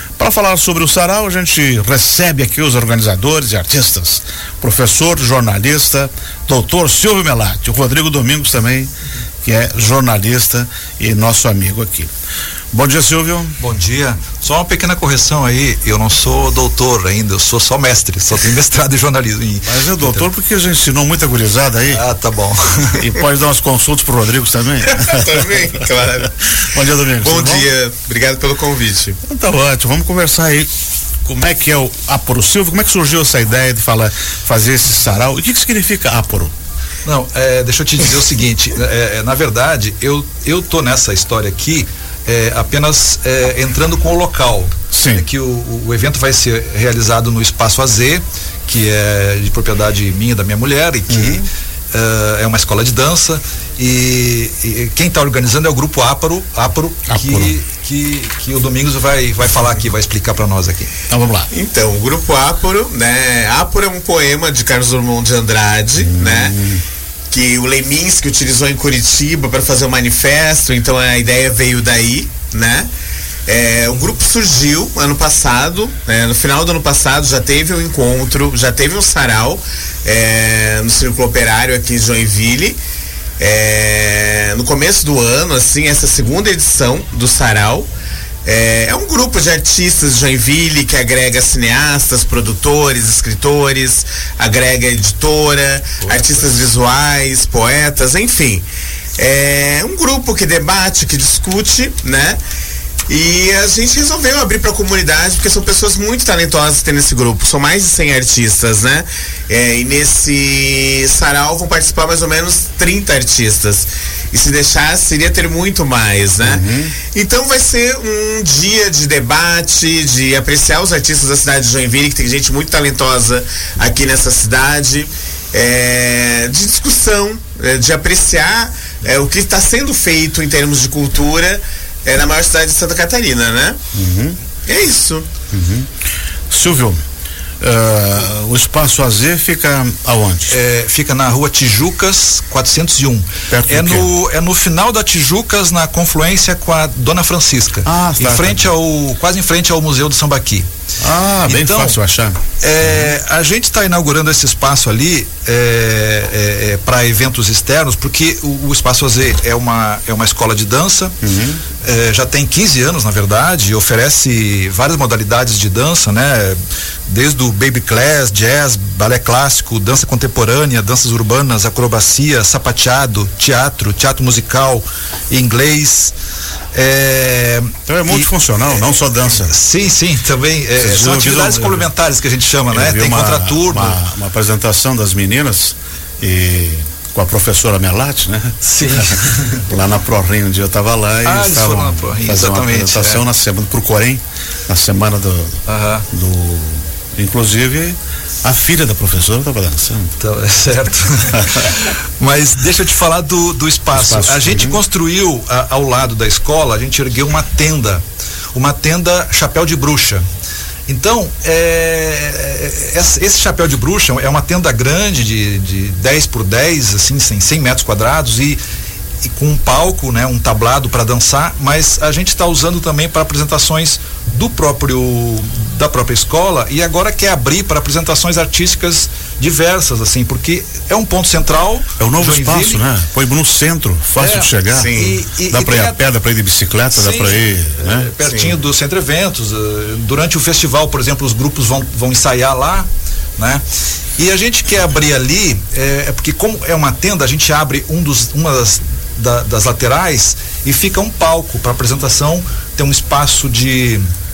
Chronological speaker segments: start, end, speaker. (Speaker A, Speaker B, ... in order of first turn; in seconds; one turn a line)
Speaker A: 0.2-8.9
Speaker A: 9.4-12.1
Speaker A: 12.7-13.6
Speaker B: 13.6-20.3
Speaker A: 19.6-22.0
Speaker B: 21.9-23.1
Speaker A: 23.0-25.8
Speaker C: 24.9-26.4
Speaker A: 26.6-27.7
Speaker C: 27.2-29.2
Speaker A: 29.2-30.7
Speaker A: 31.2-36.5
Speaker B: 37.0-60.9
Speaker A: 44.9-45.2
Speaker A: 51.1-51.5
Speaker A: 57.1-57.6
Speaker A: 61.1-61.5
Speaker C: 61.5-66.5
Speaker A: 66.0-66.8
Speaker C: 67.3-72.9
Speaker C: 73.5-82.8
Speaker C: 83.4-87.9
Speaker C: 88.5-98.7
Speaker B: 96.0-96.7
Speaker C: 99.2-102.4
Speaker C: 103.1-133.8
Speaker A: 116.4-117.0
Speaker A: 133.9-134.4
Speaker C: 134.7-135.3
Speaker A: 135.5-135.9
Speaker A: 136.5-137.0
Speaker A: 137.6-140.6
Speaker B: 140.5-150.7
Speaker A: 143.5-144.1
Speaker A: 147.8-148.7
Speaker A: 151.0-153.1
Speaker B: 151.4-152.0
Speaker B: 152.6-161.2
Speaker A: 161.2-161.6
Speaker B: 161.8-166.6
Speaker B: 167.1-176.1
Speaker B: 176.7-178.3
Speaker A: 177.9-179.6
Speaker B: 179.2-184.0
Speaker A: 180.8-181.9
Speaker A: 182.7-200.2
Speaker B: 188.6-189.6
Speaker B: 191.2-193.2
Speaker B: 195.7-196.1
Speaker B: 200.2-210.2
Speaker A: 203.9-204.8
Speaker B: 210.9-218.6
Speaker B: 219.2-232.9
Speaker A: 232.0-238.1
Speaker B: 234.2-236.0
Speaker C: 234.7-235.2
Speaker B: 236.9-243.6
Speaker C: 238.2-238.6
Speaker B: 244.2-254.0